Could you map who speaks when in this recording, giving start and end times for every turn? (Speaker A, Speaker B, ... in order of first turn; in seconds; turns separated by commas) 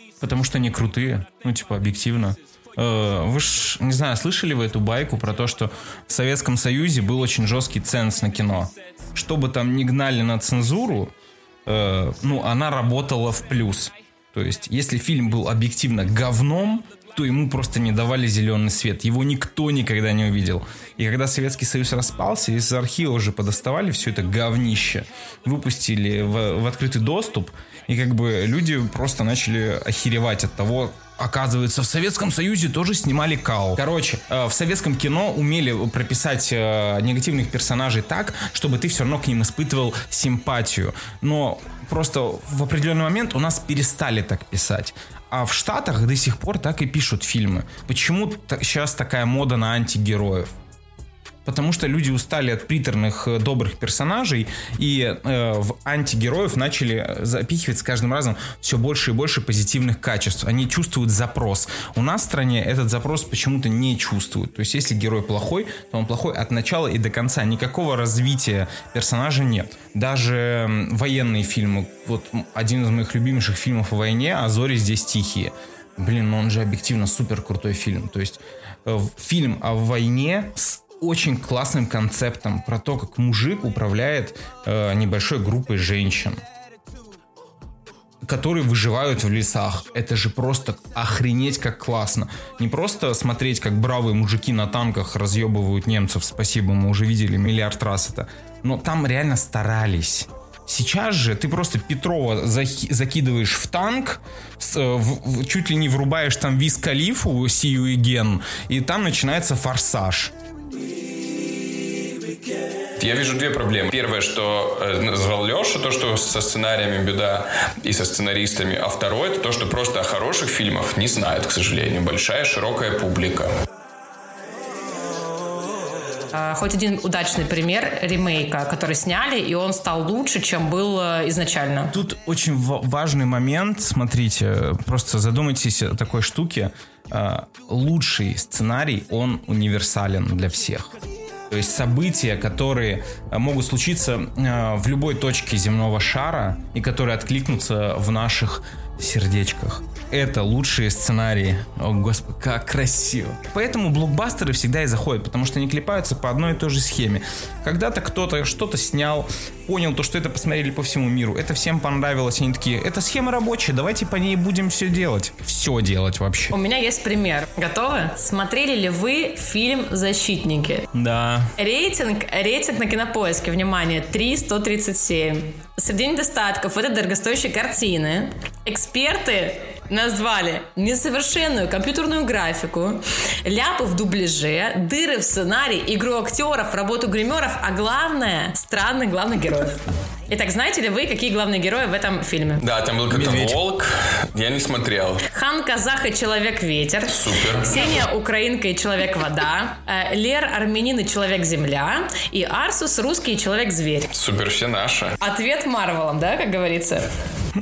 Speaker A: 0.2-11.1, Speaker A: 11.7-50.5, Speaker A: 51.4-86.4, Speaker A: 88.2-110.3, Speaker B: 113.0-123.5, Speaker C: 126.3-131.9, Speaker A: 131.9-140.9, Speaker A: 141.5-166.5, Speaker C: 166.5-170.9, Speaker A: 170.9-171.5, Speaker C: 171.6-192.6, Speaker B: 192.6-195.2, Speaker A: 193.1-193.6, Speaker C: 195.2-204.1, Speaker B: 197.1-197.8, Speaker B: 204.1-205.2, Speaker C: 205.2-207.1